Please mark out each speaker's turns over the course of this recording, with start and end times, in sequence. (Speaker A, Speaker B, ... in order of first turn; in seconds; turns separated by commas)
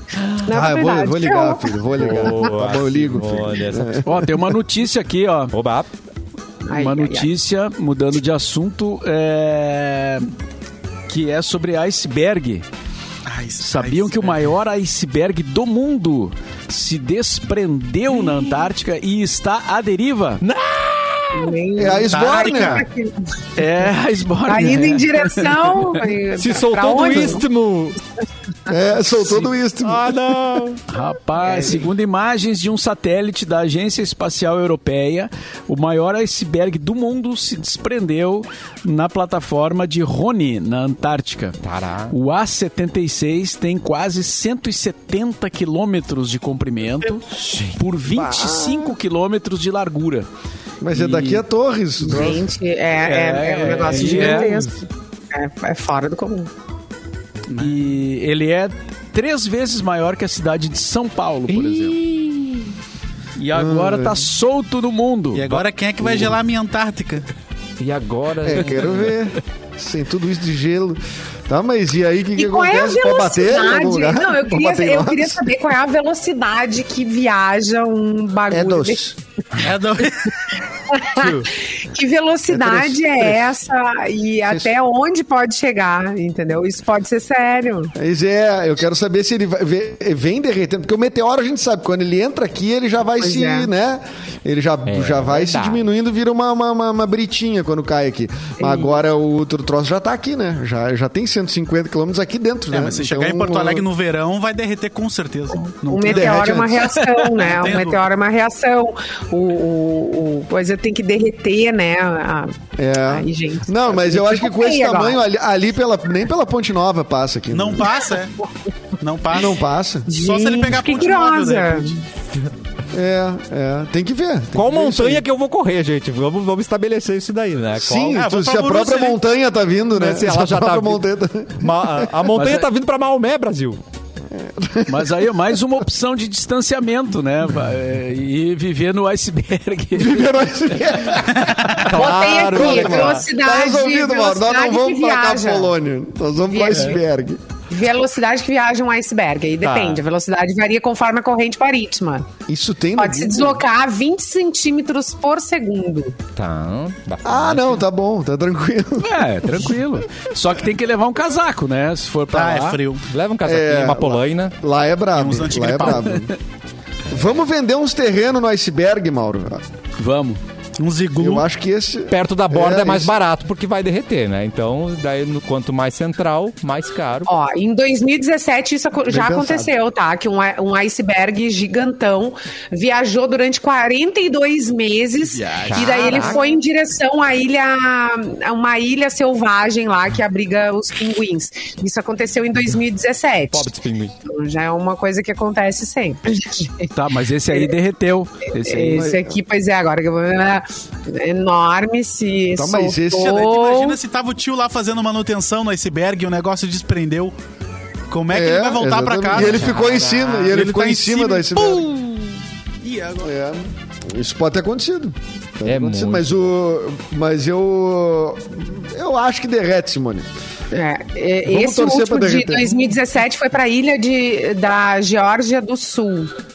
Speaker A: 0.2-0.4, Speaker B: 0.4-1.8, Speaker C: 0.5-4.4, Speaker A: 2.0-4.0, Speaker D: 4.0-5.5, Speaker A: 5.5-5.9, Speaker B: 6.6-7.3, Speaker D: 6.7-10.3, Speaker D: 11.1-12.7, Speaker E: 13.2-14.4, Speaker D: 13.6-20.4, Speaker A: 20.4-21.6, Speaker B: 21.3-23.3, Speaker C: 21.8-22.9, Speaker E: 22.1-22.8, Speaker D: 23.6-26.0, Speaker B: 24.4-27.4, Speaker A: 26.4-28.0, Speaker C: 28.7-30.1, Speaker A: 29.8-30.8, Speaker D: 30.9-50.3, Speaker A: 41.6-42.1, Speaker A: 47.3-47.8, Speaker C: 48.1-48.9, Speaker C: 50.8-52.5, Speaker D: 50.9-51.4, Speaker B: 52.0-56.5, Speaker D: 53.0-54.7, Speaker E: 57.5-57.8, Speaker D: 57.5-62.0, Speaker A: 61.5-62.6, Speaker D: 63.4-65.6, Speaker C: 63.5-64.3, Speaker E: 65.3-67.3, Speaker A: 67.8-69.2, Speaker C: 68.4-75.5, Speaker B: 72.4-79.0, Speaker C: 78.5-79.2, Speaker E: 79.6-80.4, Speaker B: 80.9-87.9, Speaker C: 82.5-83.4, Speaker C: 88.0-103.8, Speaker B: 93.2-93.7, Speaker A: 94.9-95.8, Speaker B: 98.6-99.0, Speaker E: 102.7-106.6, Speaker B: 105.6-115.2, Speaker C: 106.0-106.9, Speaker D: 107.0-107.4, Speaker E: 107.4-108.0, Speaker C: 112.8-118.0, Speaker E: 117.5-118.4, Speaker E: 119.0-122.0, Speaker C: 119.3-120.1, Speaker B: 120.1-122.0, Speaker C: 122.9-125.2, Speaker A: 124.5-128.2, Speaker C: 127.8-132.1, Speaker E: 128.0-129.2, Speaker A: 129.9-131.0, Speaker A: 131.6-133.8, Speaker D: 132.3-132.7, Speaker C: 134.3-135.4, Speaker D: 134.9-140.4, Speaker C: 139.9-147.4, Speaker E: 141.3-141.9, Speaker A: 141.8-143.2, Speaker B: 141.9-145.7, Speaker B: 146.5-147.0, Speaker B: 147.7-152.3, Speaker A: 149.6-150.0, Speaker C: 152.5-153.6, Speaker B: 153.0-156.2, Speaker A: 156.3-157.8, Speaker C: 157.2-159.3, Speaker D: 159.0-162.8, Speaker E: 162.3-163.1, Speaker A: 163.1-164.5, Speaker C: 163.4-166.3, Speaker E: 165.2-166.1, Speaker C: 167.1-169.6, Speaker D: 170.0-170.4, Speaker E: 170.8-171.4, Speaker C: 171.2-173.1, Speaker A: 172.1-177.3, Speaker B: 177.3-193.7, Speaker C: 179.1-179.7, Speaker D: 185.3-186.4, Speaker A: 185.5-186.4, Speaker A: 193.5-194.1, Speaker B: 194.2-196.9, Speaker D: 196.9-199.1, Speaker B: 198.5-204.0, Speaker C: 198.9-199.4, Speaker C: 202.5-203.4, Speaker E: 203.1-207.3, Speaker E: 208.1-213.2, Speaker C: 208.3-211.9, Speaker A: 209.3-210.5, Speaker C: 213.2-220.3, Speaker A: 215.6-216.4, Speaker B: 220.7-226.3, Speaker C: 221.5-222.9